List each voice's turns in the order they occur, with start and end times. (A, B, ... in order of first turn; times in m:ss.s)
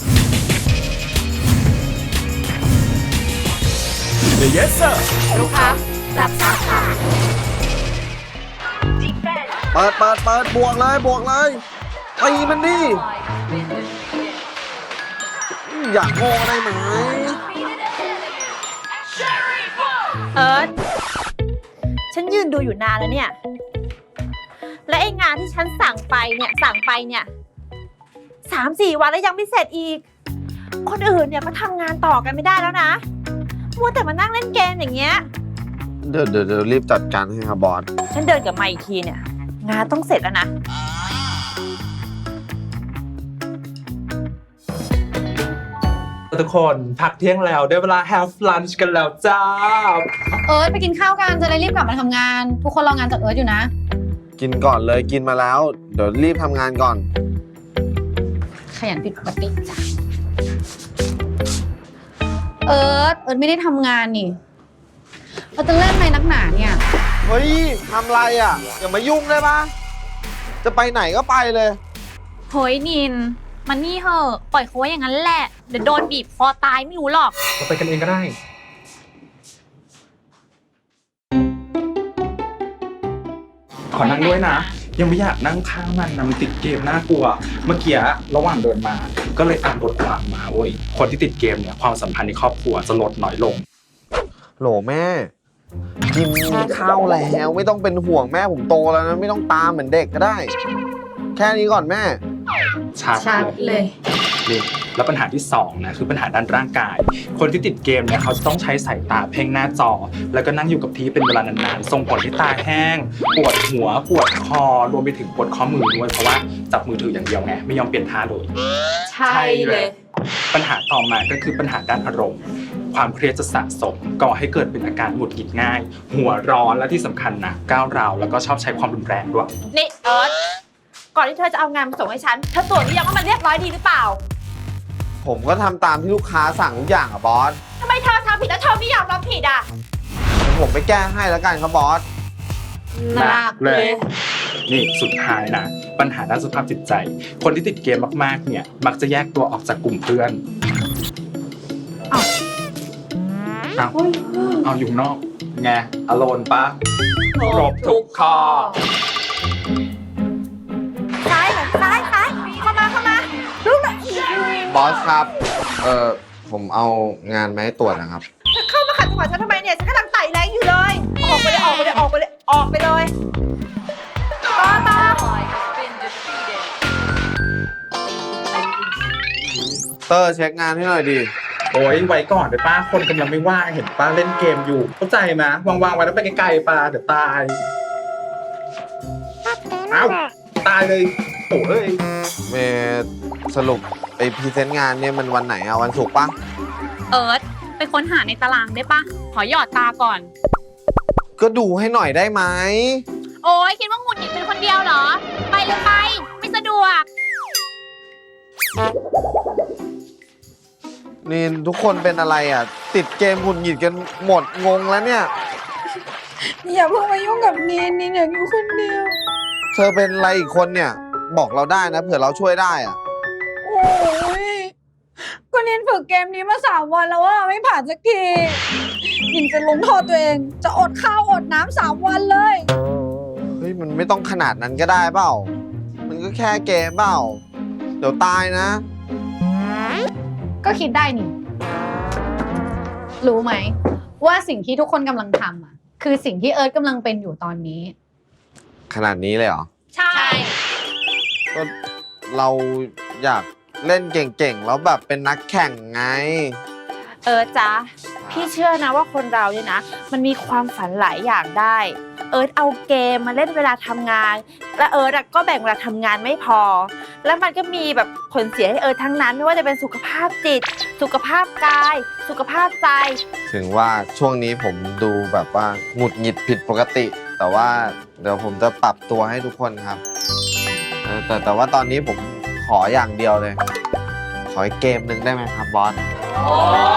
0:05.4-0:06.7 A
0:09.7-0:11.6 B
0:12.2-0:13.0 B
0:15.6-0:17.4 B
0:20.3-0:20.7 A
0:22.1-0:23.3 A
0:24.9-0:27.3 A
0:28.4-0:30.0 A
0:30.8-0:33.0 A
0:33.8-0:35.2 A
0:36.0-0:37.9 B
0:38.1-0:40.5 A
0:46.3-0:50.1 C
0:50.4-0:53.7 D
0:54.4-0:57.1 B
0:58.7-0:59.8 D
1:02.6-1:04.4 D
1:05.6-1:06.8 D
1:07.2-1:09.7 B
1:10.6-1:11.8 B
1:12.5-1:17.3 E
1:17.6-1:18.4 C
1:23.9-1:33.6 C
1:24.0-1:24.7 E
1:34.6-1:35.3 B
1:36.1-1:40.5 B
1:41.4-1:42.2 B
1:42.9-1:43.8 C
1:43.3-1:43.8 D
1:44.4-1:58.5 C
1:59.2-1:59.9 C
2:00.5-2:09.5 C
2:09.7-2:10.3 A
2:11.1-2:14.2 A
2:15.2-2:17.6 B
2:17.8-2:19.7 A
2:20.4-2:22.0 B
2:23.1-2:24.0 C
2:23.2-2:23.8 E
2:24.7-2:30.4 C
2:33.8-2:36.8 C
2:37.4-2:38.8 C
2:41.2-2:44.7 A
2:44.6-2:48.2 B
2:48.5-2:53.1 A
2:54.6-2:55.3 A
3:00.0-3:01.3 B
3:01.7-3:07.6 C
3:09.9-3:12.0 C
3:12.5-3:16.3 B
3:17.1-3:20.3 E
3:21.4-3:23.0 B
3:23.4-3:27.0 E
3:31.2-3:35.3 B
3:36.6-3:39.1 D
3:39.7-3:43.0 B
3:43.6-3:44.7 D
3:45.5-3:48.6 D
3:49.3-3:52.6 D
3:53.6-3:55.5 B
3:56.1-3:57.4 B
3:58.0-3:58.8 B
4:00.6-4:01.3 D
4:03.2-4:07.9 D
4:08.9-4:09.7 B
4:10.0-4:10.5 E
4:10.1-4:10.5 A
4:12.3-4:16.6 B
4:17.2-4:33.2 A
4:18.2-4:18.5 B
4:33.5-4:40.0 B
4:41.0-4:43.6 B
4:44.5-4:46.0 B